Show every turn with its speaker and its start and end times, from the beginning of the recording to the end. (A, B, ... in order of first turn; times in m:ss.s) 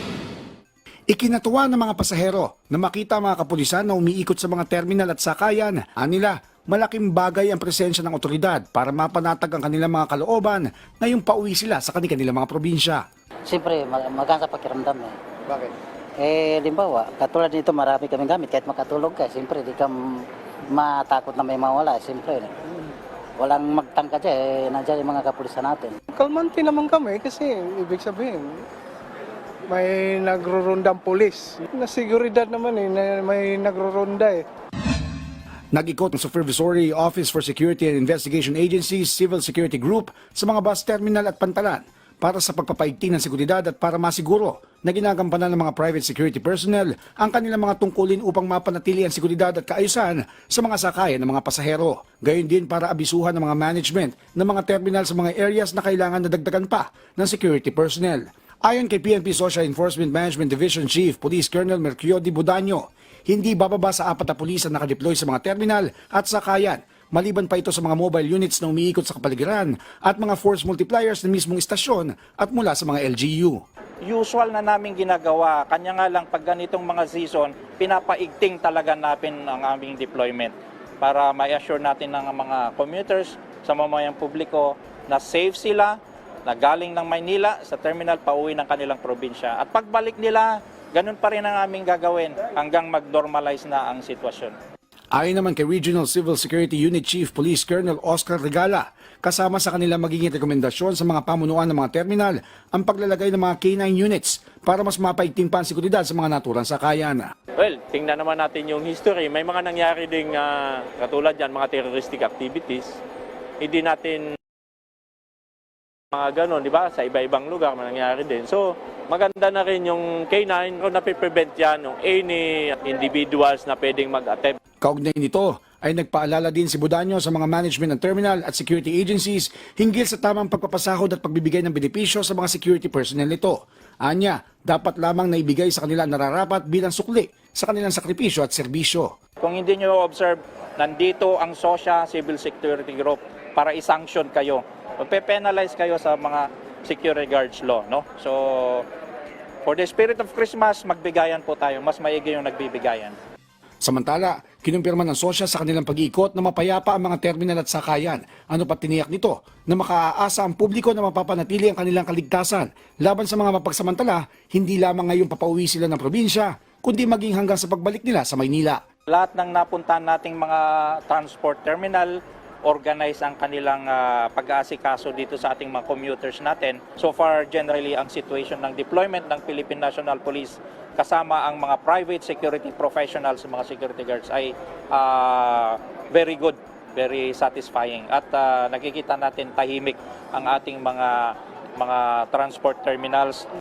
0:01.1-0:13.0 A
0:13.4-0:26.0 B
0:26.1-0:28.6 C
0:29.7-0:34.4 C
0:35.7-1:13.6 A
1:14.0-1:34.6 D
1:35.1-1:47.3 A
1:47.6-1:53.0 E
1:53.6-1:54.2 E
1:56.1-2:04.6 E
2:04.8-2:19.1 A
2:19.4-2:28.8 D
2:29.6-2:33.2 D
2:33.8-2:48.8 A
2:49.1-3:13.5 D